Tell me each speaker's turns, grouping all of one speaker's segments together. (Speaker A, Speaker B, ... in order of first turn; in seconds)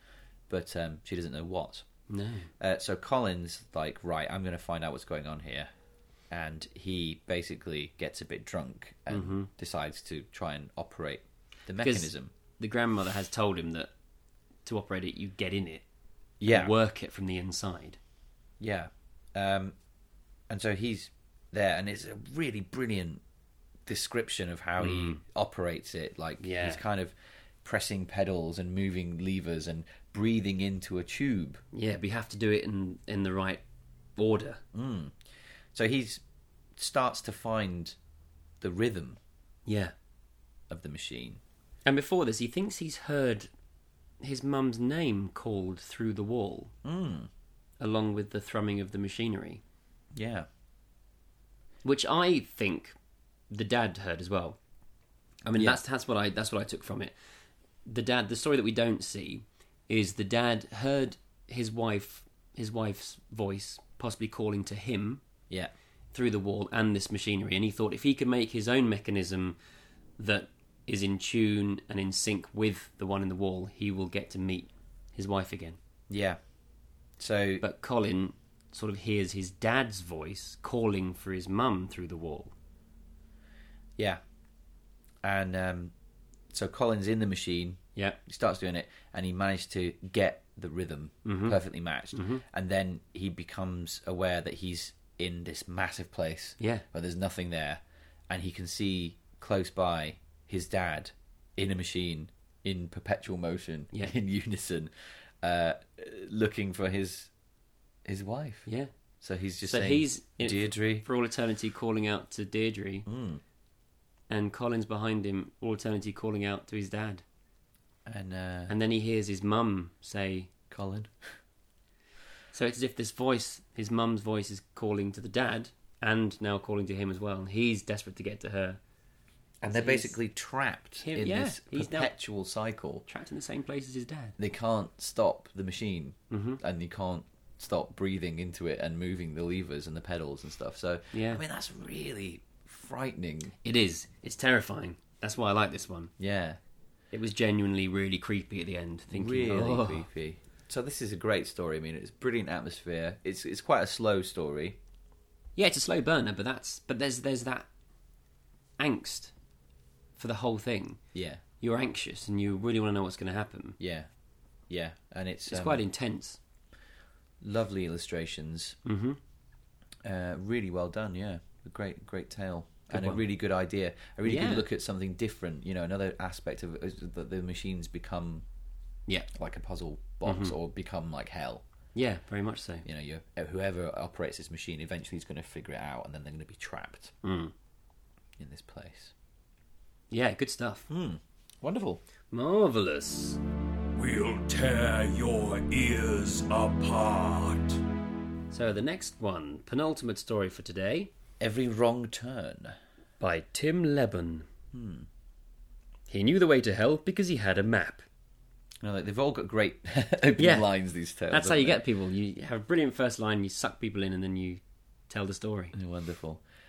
Speaker A: 0.5-1.9, 2.6-5.7, 6.3-12.3, 16.4-16.7, 18.6-19.8, 20.5-23.2, 23.9-31.6, 34.7-35.2, 35.7-36.2, 36.8-38.0, 38.6-39.2, 40.7-41.4, 46.8-47.3, 50.1-50.5, 76.1-76.4, 77.2-77.6, 85.2-85.9, 86.5-104.9, 105.4-107.3, 108.0-108.7, 109.2-111.0, 113.1-113.4, 118.0-118.7, 120.7-121.3, 129.6-133.1, 134.4-143.5, 146.2-146.6, 149.1-154.8, 161.1-161.4, 163.8-164.1, 164.7-165.8, 167.4-168.8, 170.0-178.4, 179.3-181.6, 182.8-187.1, 188.4-189.1, 190.9-192.0, 201.4-202.8, 204.7-205.1, 208.8-211.8, 215.7-216.4
Speaker B: 2.1-2.5, 9.1-9.5, 11.8-13.9, 14.6-15.8, 16.5-18.0, 24.8-25.2, 26.4-26.8, 31.7-33.6, 34.2-34.6, 39.7-39.9, 41.9-43.5, 44.2-46.7, 47.8-49.6, 51.8-53.0, 53.5-54.6, 55.5-57.1, 57.9-65.2, 66.1-69.6, 70.2-75.8, 77.6-82.5, 91.2-91.6, 92.1-92.4, 109.6-113.1, 114.3-117.2, 118.7-120.5, 122.5-128.8, 129.7-130.2, 131.0-132.1, 133.1-134.4, 136.3-136.6, 141.1-141.4, 143.6-146.1, 147.1-150.1, 155.6-157.7, 158.8-159.3, 160.2-161.0, 161.6-163.8, 165.5-166.4, 168.8-169.2, 172.9-173.2, 174.3-174.7, 180.2-180.6, 181.9-182.9, 187.2-187.5, 190.1-190.9, 192.3-193.4, 198.5-201.1, 203.2-204.5, 206.1-208.0, 210.4-210.7, 211.3-215.7
Speaker C: 193.9-197.8